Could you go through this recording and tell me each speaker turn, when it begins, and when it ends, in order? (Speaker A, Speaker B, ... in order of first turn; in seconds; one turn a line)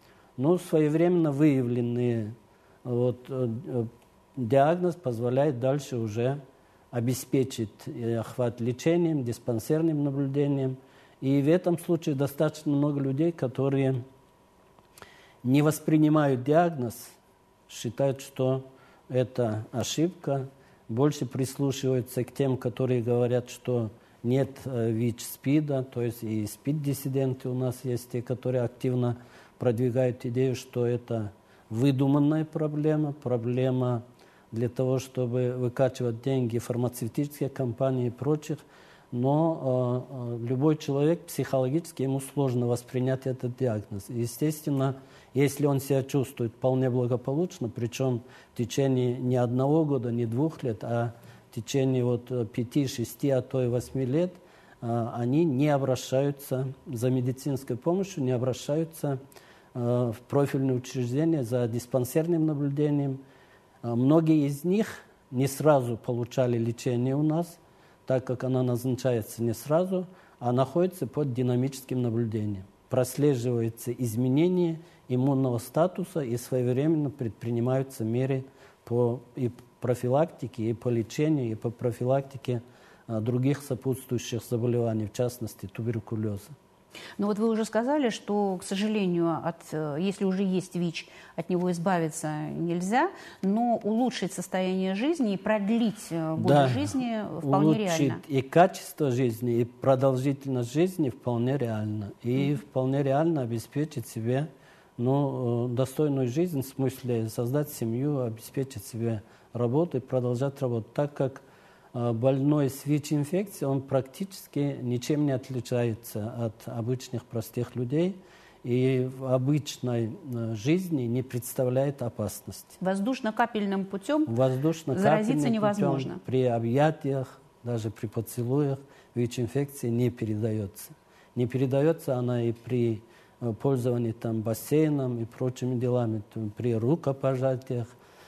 Speaker A: 0.4-6.4
Speaker A: 6.9-14.0
Speaker A: 15.4-17.2
Speaker A: 17.7-59.2
Speaker A: 59.7-63.2
Speaker A: 63.8-86.5
Speaker B: 87.2-98.2
Speaker A: 96.4-122.8
Speaker B: 122.8-124.3
Speaker A: 124.3-137.9
Speaker B: 124.9-126.2